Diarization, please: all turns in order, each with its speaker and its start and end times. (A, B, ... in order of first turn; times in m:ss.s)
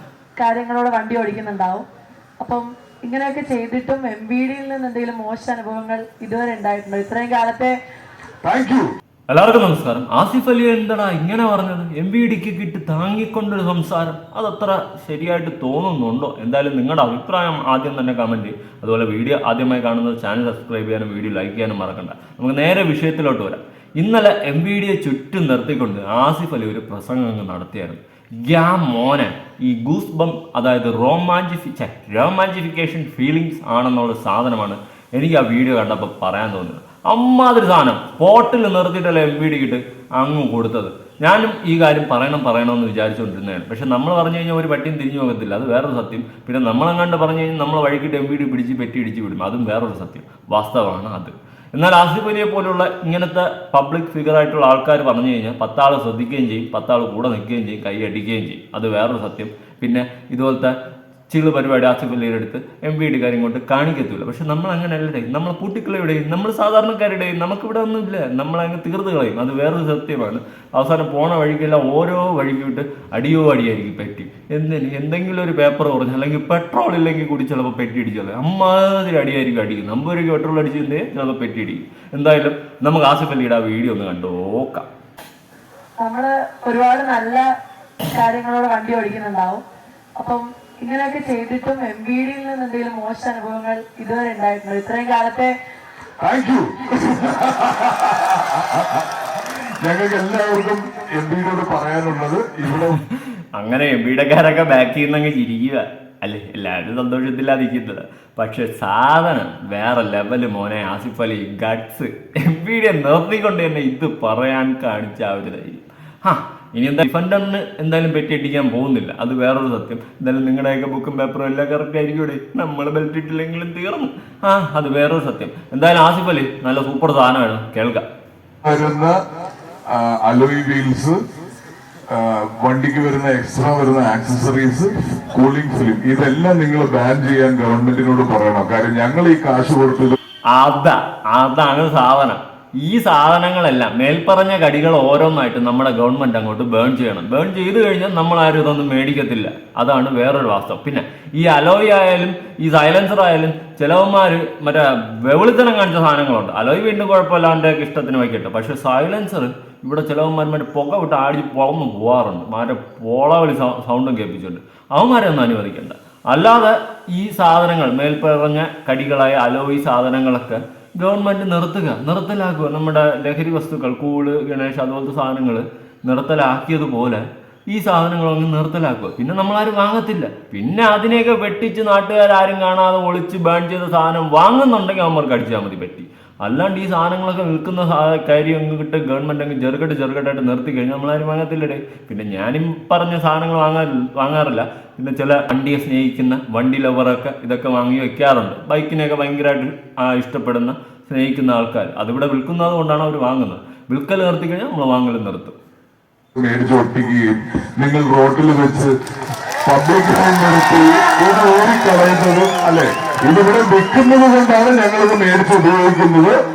0:00.4-0:01.8 A
0:02.4-0:07.7 A
0:08.4-0:08.8 B
0:09.3-1:00.7 C
1:01.3-1:24.9 C
1:26.0-1:27.4 A
1:28.1-1:29.6 A
1:30.2-1:35.5 A
1:36.2-1:43.0 B
1:43.1-2:08.0 C
2:08.6-2:09.1 B
2:09.9-2:11.2 B
2:12.1-2:20.2 B
2:20.5-3:25.6 C
3:26.3-3:28.9 B
3:29.6-3:36.4 B